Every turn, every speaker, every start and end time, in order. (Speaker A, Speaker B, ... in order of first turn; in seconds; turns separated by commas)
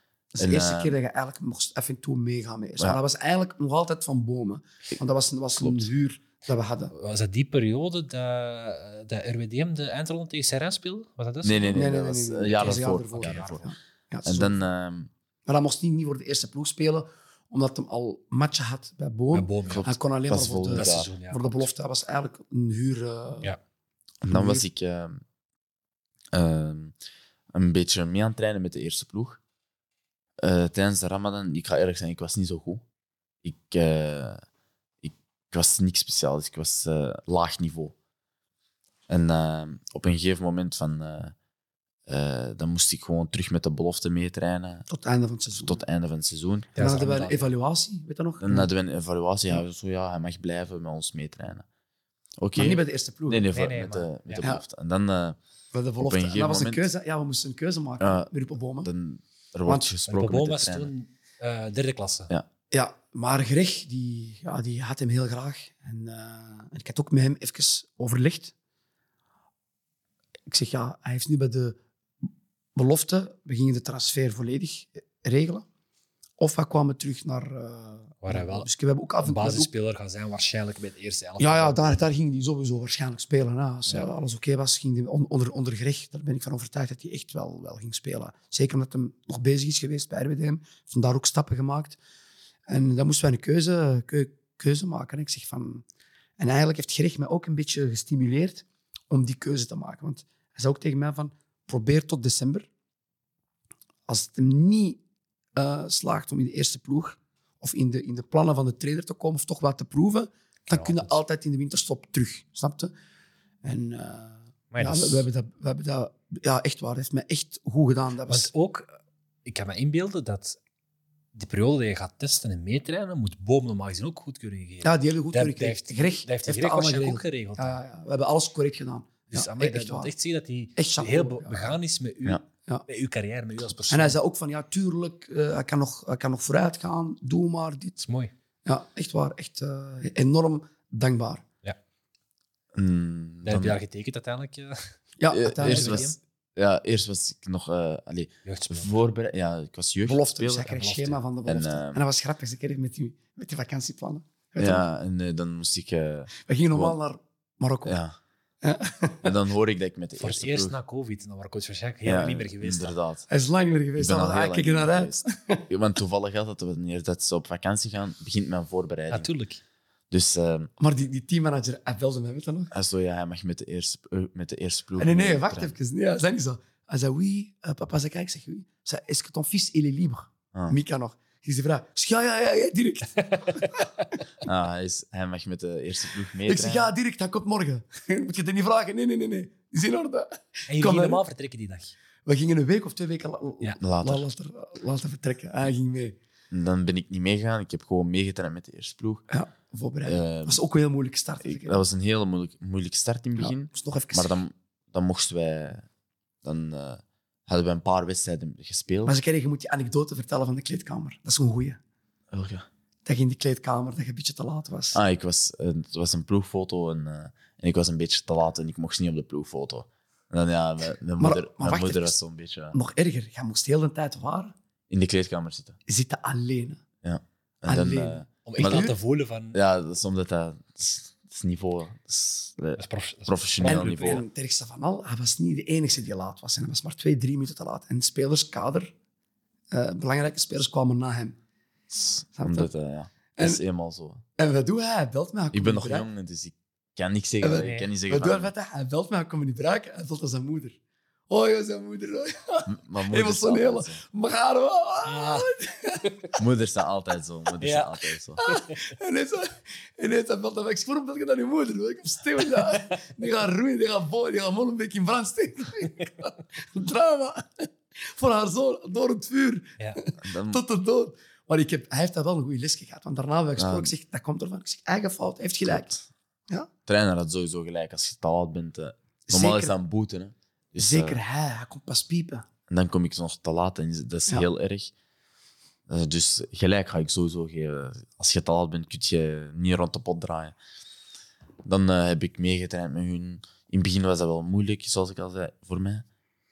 Speaker A: 0.3-6.9, Speaker B: 0.4-0.9, Speaker B: 5.6-5.9, Speaker C: 6.9-11.8, Speaker B: 11.4-13.6, Speaker A: 11.7-14.6, Speaker C: 12.6-13.6, Speaker B: 14.2-15.1, Speaker A: 15.4-23.5, Speaker C: 19.3-19.9, Speaker B: 19.7-21.1, Speaker C: 20.7-21.7, Speaker B: 24.2-25.2, Speaker A: 24.3-24.6, Speaker B: 26.3-26.9, Speaker B: 27.5-29.4, Speaker B: 30.4-32.8, Speaker B: 33.4-34.4, Speaker B: 35.0-37.9, Speaker B: 39.1-41.3, Speaker B: 42.1-44.9, Speaker A: 44.9-45.8, Speaker B: 45.6-46.7, Speaker C: 46.7-47.5, Speaker A: 46.8-48.7, Speaker B: 48.4-51.6, Speaker B: 52.4-55.4, Speaker A: 52.6-53.5, Speaker C: 53.5-54.5, Speaker A: 55.7-58.9, Speaker B: 56.0-56.9, Speaker B: 58.0-58.3, Speaker B: 58.8-60.9, Speaker A: 59.6-59.9, Speaker C: 60.1-62.3, Speaker A: 62.7-68.5, Speaker A: 70.5-71.8, Speaker A: 72.7-75.6, Speaker A: 76.4-79.7, Speaker C: 78.2-78.7, Speaker C: 79.2-81.9, Speaker A: 81.4-92.0, Speaker A: 92.7-95.8, Speaker A: 96.4-102.7, Speaker A: 104.1-105.0, Speaker A: 105.6-112.9, Speaker C: 110.7-111.2, Speaker A: 113.6-118.5, Speaker C: 114.7-115.3, Speaker C: 118.3-118.9, Speaker C: 119.5-120.6, Speaker C: 121.3-127.8, Speaker A: 124.8-130.1, Speaker C: 129.3-134.2, Speaker A: 130.8-131.8, Speaker A: 133.9-138.0, Speaker C: 138.0-138.3, Speaker A: 138.6-141.4, Speaker B: 142.7-143.8, Speaker C: 143.4-144.9, Speaker A: 145.2-146.1, Speaker B: 145.3-152.0, Speaker C: 145.6-146.2, Speaker C: 148.4-148.9, Speaker A: 150.1-154.8, Speaker B: 154.6-156.9, Speaker A: 156.4-158.0, Speaker B: 157.8-158.2, Speaker A: 158.6-159.3, Speaker B: 159.2-160.7, Speaker C: 160.2-162.9, Speaker B: 162.1-163.2, Speaker A: 163.3-165.7, Speaker B: 164.0-169.3, Speaker C: 169.1-169.6, Speaker B: 170.1-170.7, Speaker A: 170.8-172.7, Speaker B: 172.7-175.7, Speaker A: 175.0-183.9, Speaker C: 183.3-183.9, Speaker B: 184.4-186.9, Speaker A: 186.4-191.2, Speaker C: 190.7-191.9, Speaker A: 192.3-196.2, Speaker B: 193.8-194.2, Speaker B: 196.5-199.2, Speaker A: 199.3-201.8, Speaker B: 200.1-200.6, Speaker B: 201.4-205.8, Speaker A: 203.4-204.4, Speaker B: 206.4-209.2, Speaker A: 209.1-211.8, Speaker B: 212.3-212.6, Speaker A: 213.1-215.0, Speaker B: 214.9-222.8, Speaker A: 221.2-222.2, Speaker A: 222.7-224.5, Speaker B: 224.9-225.8, Speaker A: 225.9-226.8, Speaker B: 227.0-228.9, Speaker A: 227.7-228.9, Speaker C: 228.4-229.6, Speaker B: 229.5-234.2, Speaker C: 232.8-234.2, Speaker A: 233.6-238.9, Speaker A: 239.7-241.4, Speaker B: 241.9-244.2, Speaker A: 242.4-242.7, Speaker A: 243.3-243.6, Speaker A: 244.4-246.1, Speaker B: 245.5-248.5, Speaker A: 247.4-250.8, Speaker C: 247.5-247.9, Speaker A: 251.3-256.1, Speaker B: 252.7-254.0, Speaker C: 255.1-255.5, Speaker B: 256.4-258.4, Speaker C: 257.6-258.8, Speaker A: 258.4-275.9, Speaker B: 270.2-270.6, Speaker B: 273.6-273.9, Speaker B: 275.6-276.1, Speaker B: 276.9-281.2, Speaker A: 279.3-279.7, Speaker A: 280.8-282.4, Speaker B: 282.7-284.9, Speaker B: 285.9-290.6, Speaker B: 291.6-296.1